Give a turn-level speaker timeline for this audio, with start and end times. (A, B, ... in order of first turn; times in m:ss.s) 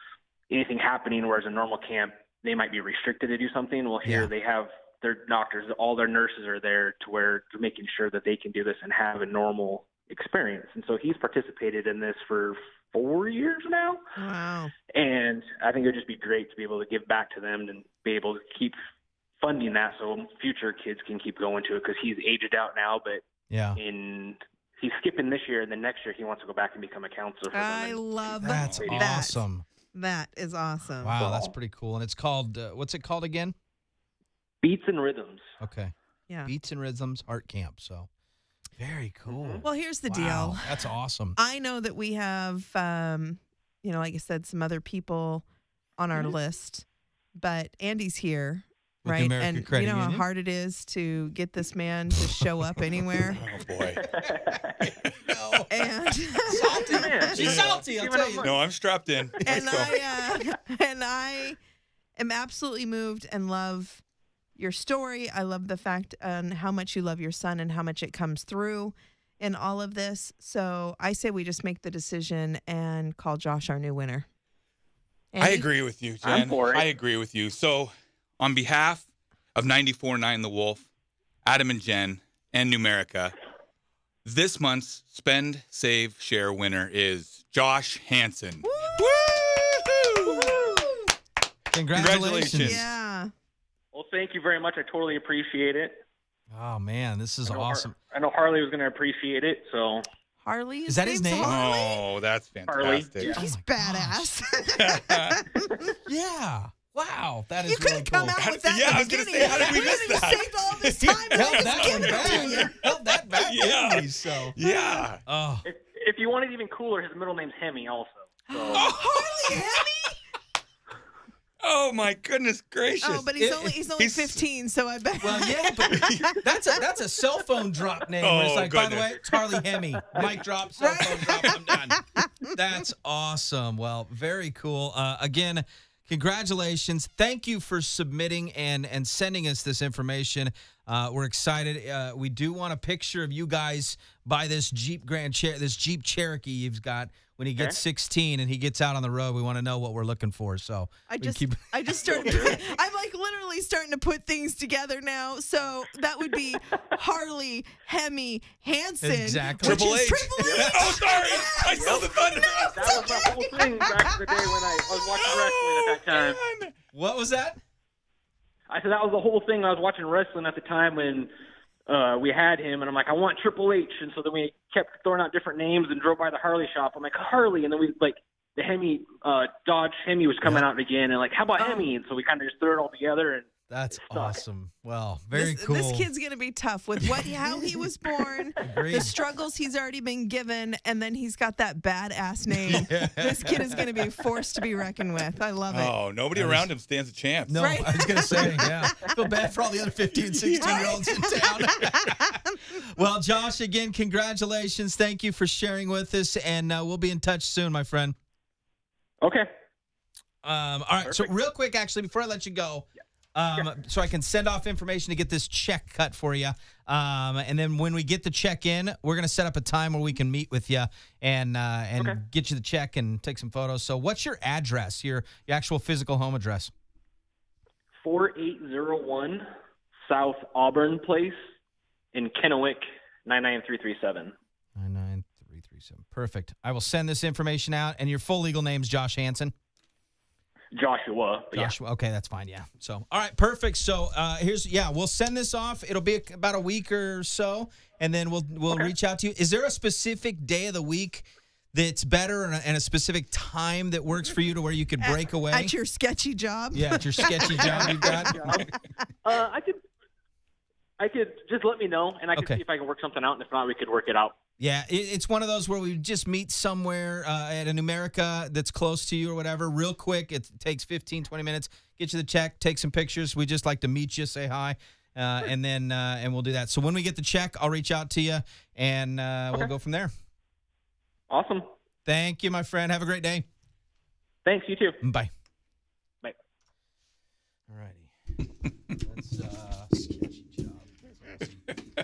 0:00.5-0:14.0 A
0:04.0-0:04.3 B
0:14.2-0:14.7 C
0:14.9-0:18.7 A
0:19.4-0:23.2 A
0:23.5-0:23.8 B
0:23.7-0:28.0 A
0:27.5-0:31.2 C
0:28.4-0:29.6 B
0:28.4-0:29.1 D
0:28.8-0:29.1 A
0:31.0-0:33.5 B
0:31.2-0:31.5 A
0:34.6-0:35.4 A
0:35.6-0:35.9 B
0:36.5-0:38.1 B
0:38.8-0:41.4 B
0:39.3-0:39.6 A
0:39.6-0:45.4 C
0:46.0-0:53.4 C
0:49.0-0:50.2 B
0:53.3-0:54.0 D
0:54.0-0:54.7 A
0:55.2-0:55.7 B
0:55.7-0:57.4 C
0:56.5-0:58.5 B
0:56.9-0:58.6 A
0:57.4-0:57.7 D
0:58.4-1:00.0 D
0:59.5-1:01.6 C
1:02.2-1:04.0 C
1:04.6-1:14.3 C
1:15.3-1:15.7 C
1:15.4-1:20.9 D
1:16.2-1:16.9 A
1:21.4-1:23.3 D
1:24.2-1:30.5 D
1:28.6-1:31.0 C
1:31.7-1:32.8 B
1:31.9-1:32.8 D
1:32.5-1:33.3 C
1:33.9-1:36.0 A
1:36.5-1:38.0 B
1:37.5-1:40.0 A
1:40.4-1:42.0 C
1:40.9-1:41.6 B
1:41.4-1:43.4 D
1:42.7-1:43.4 A
1:43.2-1:45.7 C
1:43.4-1:44.2 B
1:44.7-1:45.4 D
1:46.0-1:48.4 B
1:47.6-1:52.7 C
1:48.4-1:52.7 D
1:48.9-1:49.8 B
1:51.1-1:54.5 B
1:53.4-1:55.2 D
1:54.6-1:55.1 C
1:55.3-1:55.6 B
1:55.6-1:58.8 A
1:58.5-2:00.2 C
1:58.7-1:59.8 D
2:01.6-2:03.3 D
2:03.0-2:06.4 C
2:03.3-2:03.8 B
2:04.0-2:04.2 D
2:05.2-2:32.6 B
2:05.8-2:06.4 D
2:08.2-2:09.3 D
2:10.8-2:12.3 C
2:31.1-2:42.9 C
2:32.0-2:32.6 A
2:39.0-2:39.9 B
2:39.6-2:43.5 D
2:40.4-2:40.7 A
2:41.7-2:42.1 A
2:42.7-2:46.4 A
2:45.2-2:46.7 D
2:46.9-2:47.6 B
2:48.7-2:51.3 A
2:51.9-3:04.4 A
3:01.6-3:01.9 C
3:03.7-3:06.1 B
3:05.3-3:16.0 C
3:07.0-3:07.8 B
3:08.6-3:09.1 B
3:12.7-3:13.8 B
3:15.7-3:17.7 D
3:16.3-3:16.7 B
3:17.5-3:28.2 B
3:17.6-3:19.1 C
3:20.2-3:21.2 D
3:20.6-3:22.2 C
3:29.2-3:29.5 A
3:30.4-3:46.7 B
3:31.0-3:31.3 A
3:48.0-3:49.4 A
3:50.0-3:51.4 A
3:52.1-3:54.3 A
3:54.8-3:59.5 B
4:00.7-4:01.7 A
4:01.5-4:15.7 B
4:15.0-4:18.4 C
4:16.7-4:18.6 B
4:17.5-4:18.7 A
4:19.2-4:19.8 A
4:21.0-4:24.4 A
4:22.4-4:22.6 B
4:24.6-4:40.1 B
4:41.3-4:41.6 A
4:42.1-4:43.4 B
4:44.4-4:45.0 A
4:45.0-4:45.3 B
4:47.7-4:48.1 B
4:49.0-4:51.6 B